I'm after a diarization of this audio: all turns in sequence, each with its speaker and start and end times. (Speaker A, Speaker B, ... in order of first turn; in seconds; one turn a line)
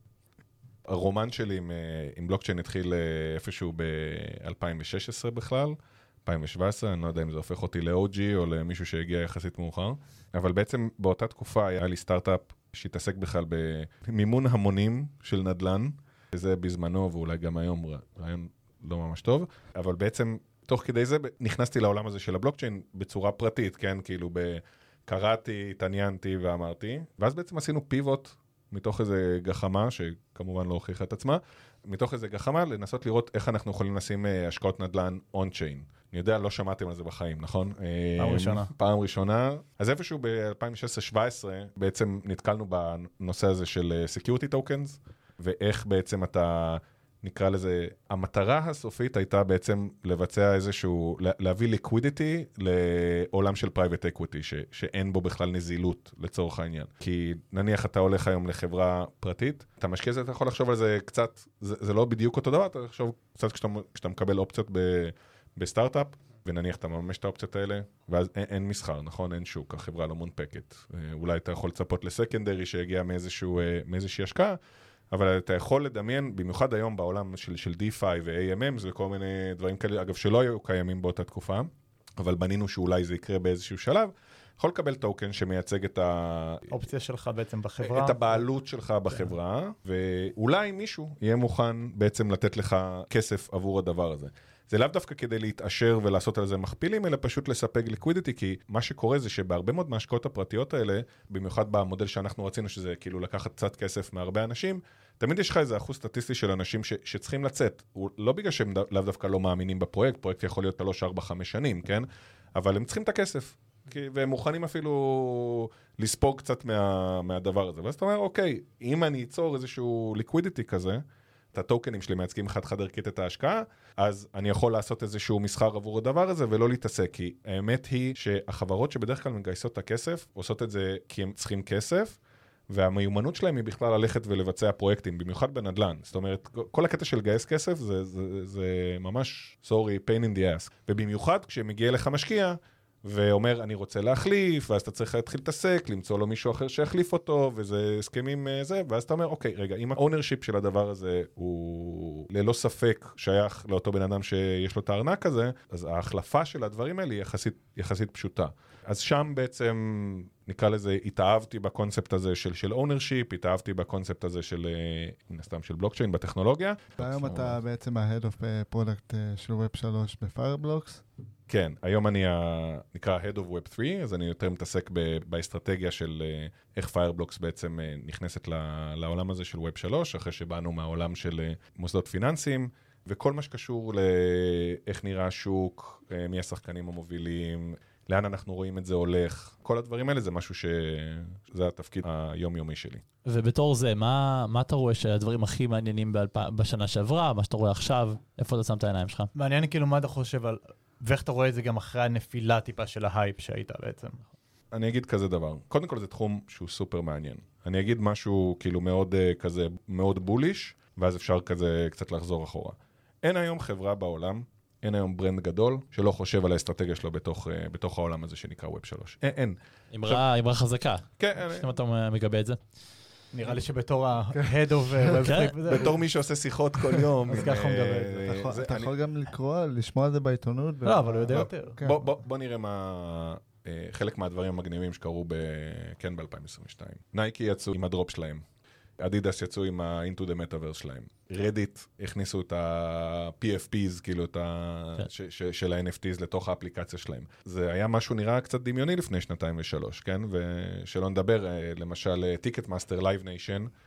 Speaker A: 0.9-74.6
Speaker B: 38.2-38.7
Speaker A: 75.1-86.8
Speaker B: 86.7-88.4
Speaker A: 87.8-121.0
Speaker A: 121.5-132.2
Speaker A: 132.7-167.6
Speaker C: 167.0-171.0
Speaker A: 171.5-193.0
Speaker D: 193.2-199.3
Speaker B: 199.3-204.2
Speaker A: 204.7-220.2
Speaker D: 219.9-222.6
Speaker A: 221.2-221.7
Speaker B: 223.3-226.0
Speaker C: 224.3-225.2
Speaker D: 225.2-225.6
Speaker A: 225.6-228.9
Speaker B: 227.3-228.5
Speaker C: 228.2-232.0
Speaker B: 230.8-231.8
Speaker A: 231.3-238.4
Speaker A: 239.0-253.7